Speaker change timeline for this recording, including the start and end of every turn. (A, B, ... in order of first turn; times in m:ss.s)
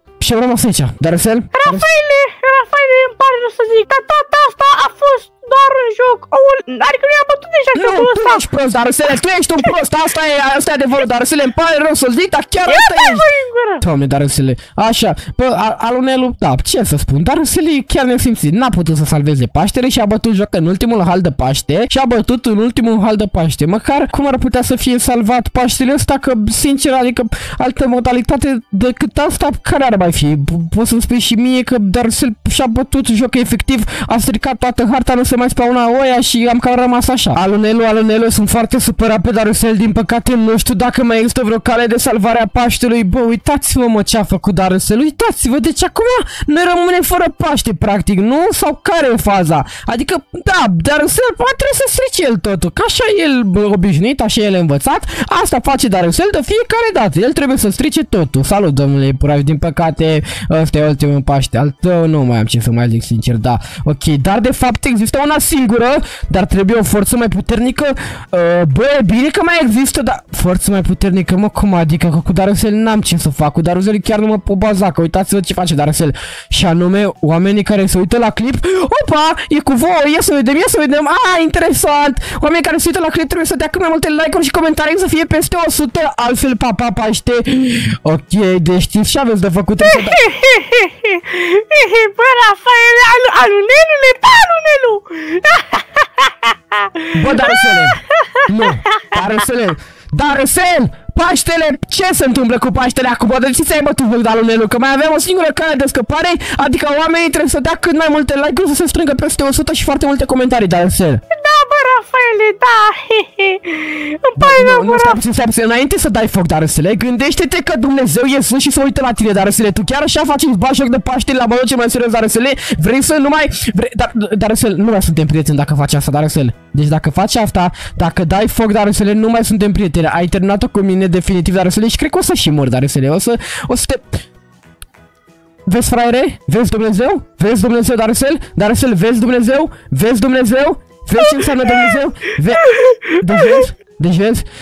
0:00.2-0:01.9 A
0:01.5-0:08.4 B
0:07.7-0:13.3 A
0:12.6-0:13.8 B
0:13.8-1:30.2 A
1:29.8-1:38.7 B
1:37.1-1:51.2 A
1:51.3-1:55.2 B
1:54.4-2:14.2 A
2:15.7-2:24.5 A
2:21.2-2:22.0 B
2:22.5-2:23.6 B